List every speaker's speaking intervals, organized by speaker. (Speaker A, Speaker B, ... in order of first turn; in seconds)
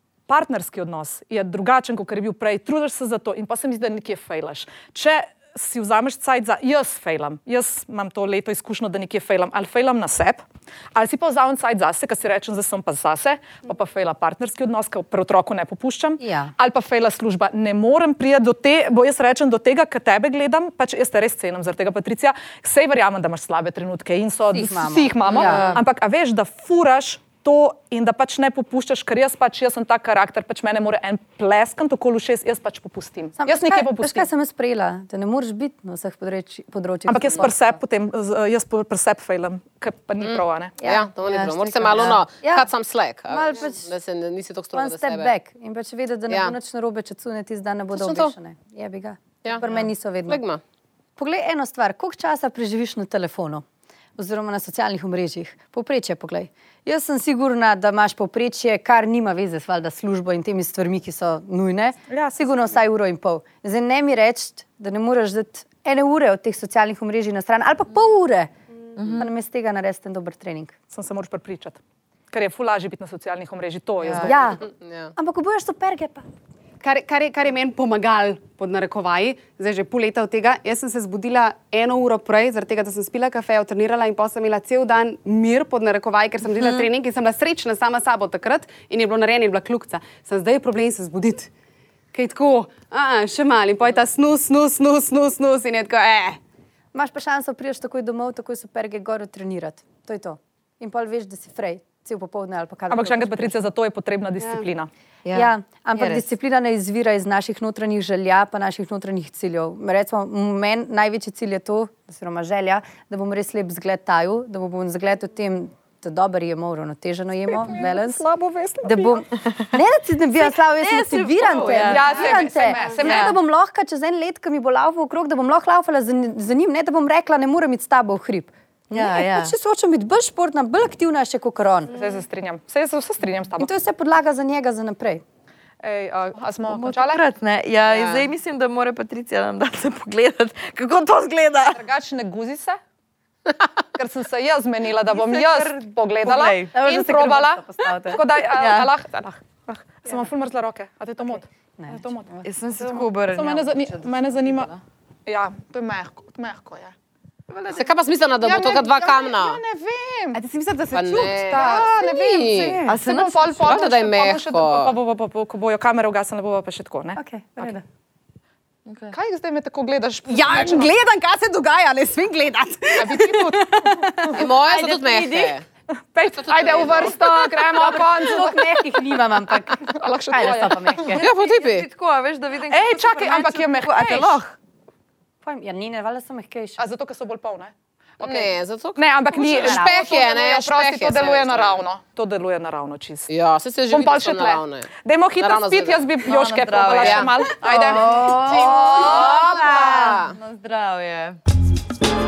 Speaker A: 0.3-34.3, 37.1-40.8, 62.1-62.8, 70.9-71.8, 72.3-74.6, 102.9-104.9, 117.5-119.2, 121.5-123.4, 131.9-133.7, 135.8-137.2, 141.7-142.8, 143.9-154.7, 155.3-156.9, 158.4-160.4, 161.5-167.8, 169.1-170.9, 176.1-178.7, 179.8-181.2, 182.7-184.4, 186.8-193.3, 193.9-198.2
Speaker B: 16.2-16.5, 24.5-25.8, 33.4-37.8, 40.8-41.1, 41.7-42.7, 43.3-43.9, 44.8-50.4, 51.2-53.6, 54.2-68.5, 69.1-70.8, 74.2-76.2, 96.9-103.6, 105.3-118.2, 118.8-131.9, 133.6-135.2, 146.7-148.2, 151.8-152.5, 167.2-167.8, 174.2-175.6, 177.6-181.2, 185.4-186.8, 189.5-190.1
Speaker C: 25.3-25.6, 40.2-45.3, 46.3-46.5, 47.9-48.3, 49.4-50.6, 74.6-75.1, 157.7-159.6, 160.9-162.8, 163.6-164.9, 173.0-173.6, 174.3-175.7, 176.4-177.2, 181.1-181.9, 188.2-191.8, 193.3-196.0, 197.0-197.3, 198.0-200.4
Speaker D: 25.4-25.8, 41.2-42.2, 69.0-69.3, 74.0-74.3, 105.2-106.3, 120.4-123.4, 128.9-129.6, 136.7-141.8, 145.1-146.7, 148.5-148.9, 152.4-154.8, 162.9-163.8, 168.9-169.2, 181.1-184.6, 196.3-201.4
Speaker E: 76.8-91.5, 92.1-96.4, 160.3-163.0, 170.3-174.4